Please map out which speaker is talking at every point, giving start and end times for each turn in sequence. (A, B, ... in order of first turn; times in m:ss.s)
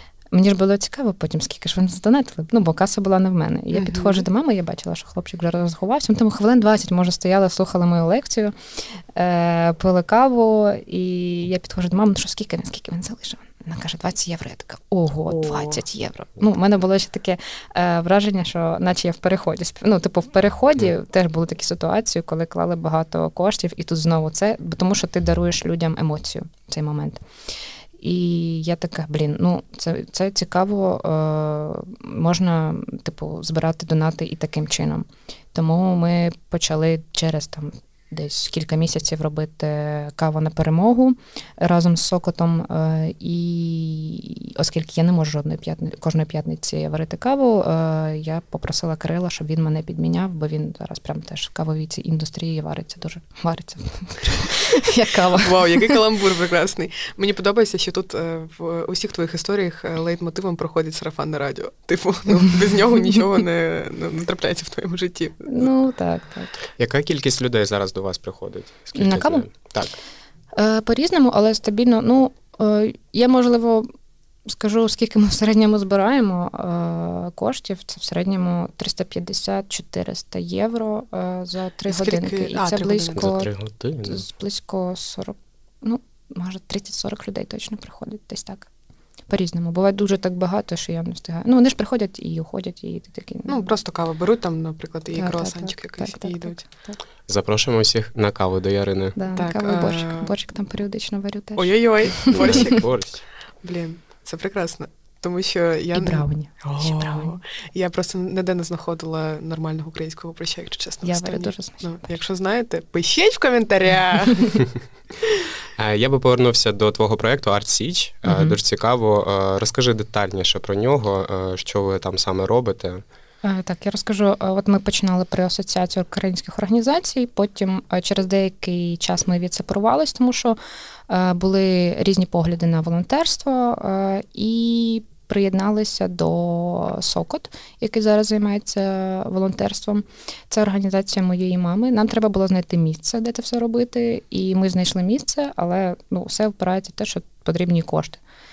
0:00.3-0:27.2 A
0:03.7-0:04.2 B
0:15.3-0:15.8 B
0:28.0-0:56.0 A
0:55.3-1:05.7 B
1:05.5-1:06.5 A
1:06.8-1:10.0 C
1:09.0-1:09.5 A
1:10.5-1:13.9 A
1:14.5-1:23.5 A
1:21.9-1:23.4 B
1:23.2-1:24.2 C
1:24.0-1:28.7 A
1:29.3-1:33.7 A
1:33.5-1:36.7 B
1:35.1-1:37.0 A
1:37.3-1:39.2 C
1:39.2-1:42.7 A
1:39.4-1:40.3 B
1:41.6-1:42.9 B
1:42.3-1:43.2 C
1:43.6-1:54.7 B
1:45.9-1:47.4 A
1:51.0-1:52.1 A
1:55.8-2:03.0 C
1:58.2-1:58.6 A
2:03.4-2:10.6 A
2:11.1-2:28.2 A